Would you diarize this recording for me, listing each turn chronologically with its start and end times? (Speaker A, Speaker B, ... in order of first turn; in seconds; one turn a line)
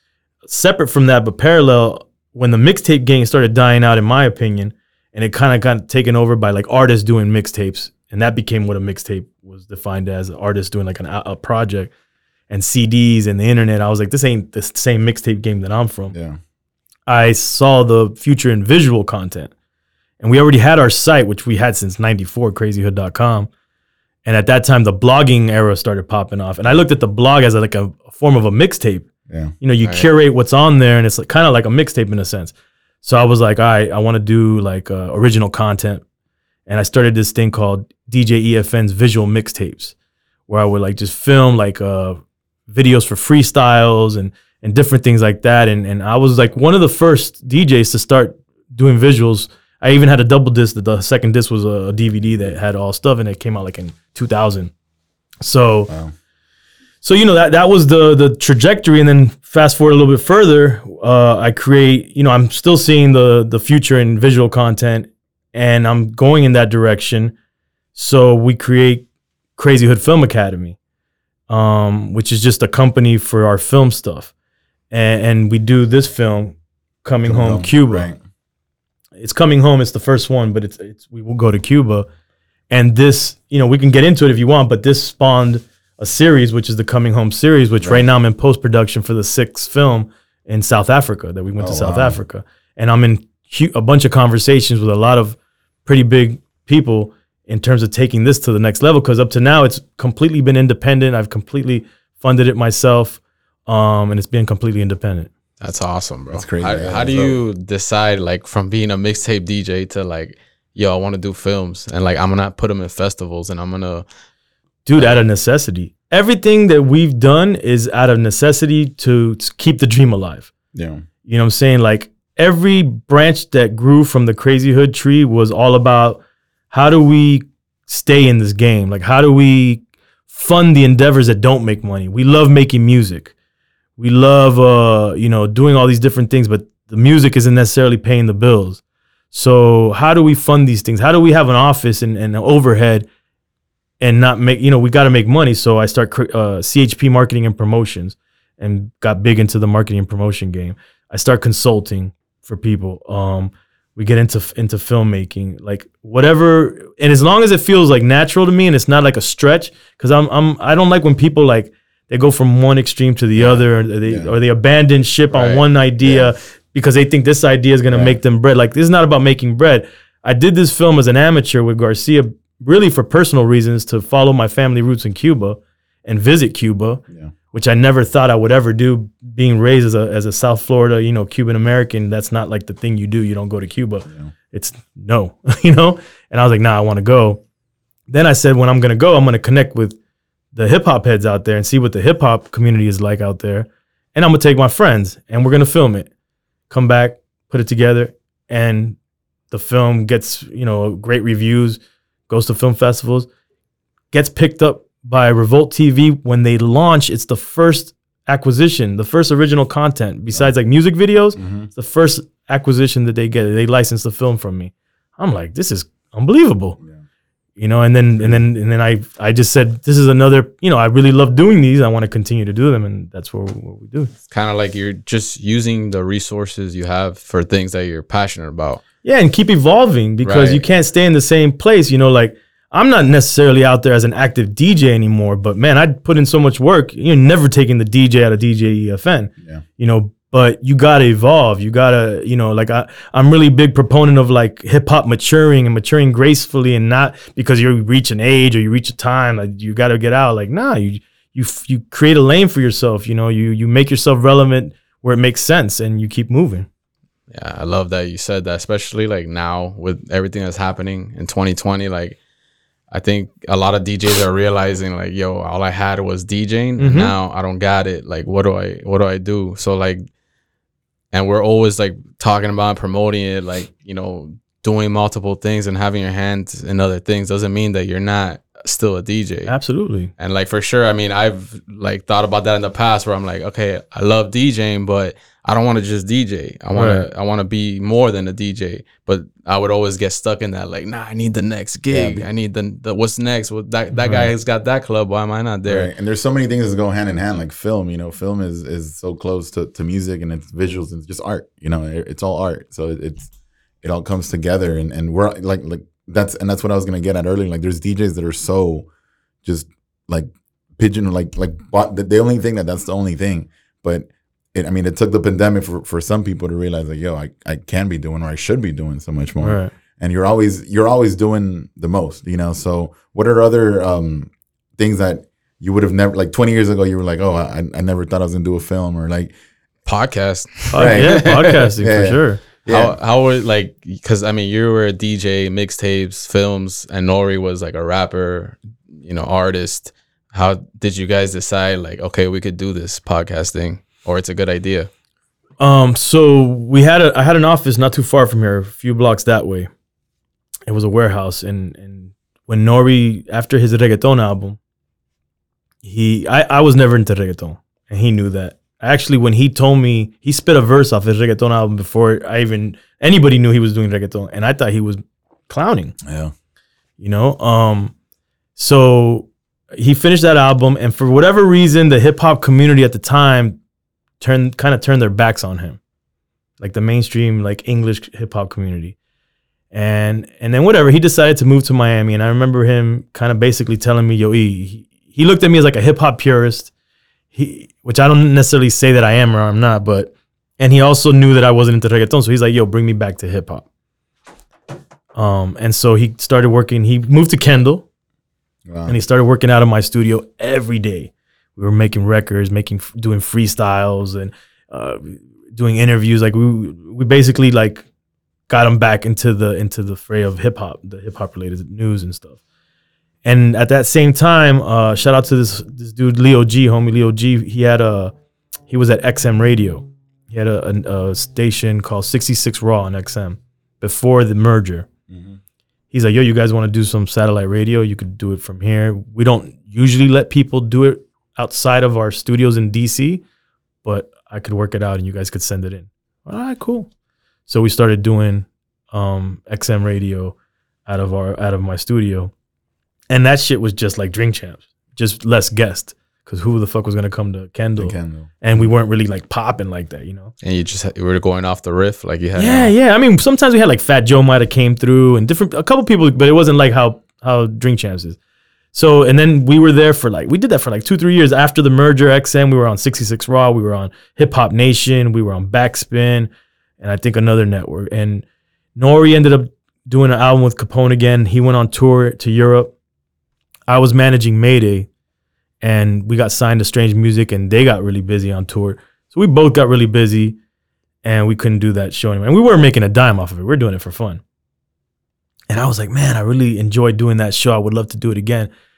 Speaker A: 0.5-11.9
Speaker A: 12.5-16.1
Speaker B: 16.1-16.4
Speaker A: 17.1-19.5
Speaker A: 20.2-23.5
Speaker A: 24.2-29.1
Speaker A: 29.6-36.0
Speaker A: 36.7-39.9
Speaker A: 40.5-54.7
Speaker A: 55.4-55.9
Speaker B: 55.9-56.1
Speaker A: 57.0-67.3
Speaker A: 68.0-69.0
Speaker A: 69.6-70.8
Speaker A: 71.5-74.3
Speaker A: 74.9-78.1
Speaker B: 77.3-78.2
Speaker A: 79.2-82.1
Speaker A: 82.7-105.3
Speaker B: 87.8-88.1
Speaker B: 91.6-92.2
Speaker C: 105.6-114.1
Speaker B: 106.3-107.4
Speaker A: 114.9-120.5
Speaker B: 120.8-121.0
Speaker A: 121.3-126.2
Speaker A: 126.7-133.3
Speaker A: 134.0-138.8
Speaker A: 139.3-143.1
Speaker A: 144.0-187.4
Speaker B: 163.4-164.3
Speaker C: 165.3-165.7
Speaker B: 166.0-166.3
Speaker B: 167.9-168.2
Speaker A: 188.1-190.0
Speaker A: 190.5-196.1
Speaker A: 196.7-199.0
Speaker A: 199.5-203.3
Speaker A: 204.1-216.8
Speaker B: 211.4-211.7
Speaker A: 217.6-224.1
Speaker C: 224.3-228.8
Speaker A: 229.0-256.7
Speaker C: 230.2-230.6
Speaker C: 257.3-262.2
Speaker C: 262.9-270.1
Speaker A: 266.8-267.1
Speaker C: 271.1-279.5
Speaker A: 279.5-280.1
Speaker C: 280.2-295.9
Speaker A: 286.7-287.1
Speaker B: 291.9-292.2
Speaker B: 294.0-294.3
Speaker B: 295.6-303.3
Speaker B: 303.8-308.9
Speaker B: 309.4-329.3
Speaker A: 319.4-319.7
Speaker C: 329.9-331.6
Speaker A: 330.7-332.4
Speaker B: 330.8-333.0
Speaker C: 332.7-344.9
Speaker A: 345.6-349.7
Speaker A: 350.7-354.6
Speaker A: 355.8-365.9
Speaker B: 366.1-366.3
Speaker A: 367.0-367.9
Speaker A: 368.6-373.6
Speaker A: 374.2-375.8
Speaker A: 376.6-379.0
Speaker A: 379.7-386.7
Speaker A: 387.3-393.6
Speaker A: 395.2-397.8
Speaker B: 398.7-399.0
Speaker A: 398.9-407.8
Speaker A: 408.5-412.4
Speaker A: 413.2-418.1
Speaker A: 418.7-424.9
Speaker B: 425.1-425.4
Speaker A: 425.9-433.2
Speaker A: 433.9-436.9
Speaker A: 437.5-440.4
Speaker A: 440.9-442.3
Speaker A: 443.1-450.3
Speaker B: 447.8-448.7
Speaker C: 450.4-452.7
Speaker A: 452.4-458.2
Speaker A: 458.7-466.3
Speaker A: 466.8-468.2
Speaker A: 468.8-472.7
Speaker A: 473.7-474.9
Speaker A: 475.6-480.4
Speaker A: 481.0-484.2
Speaker A: 485.5-488.5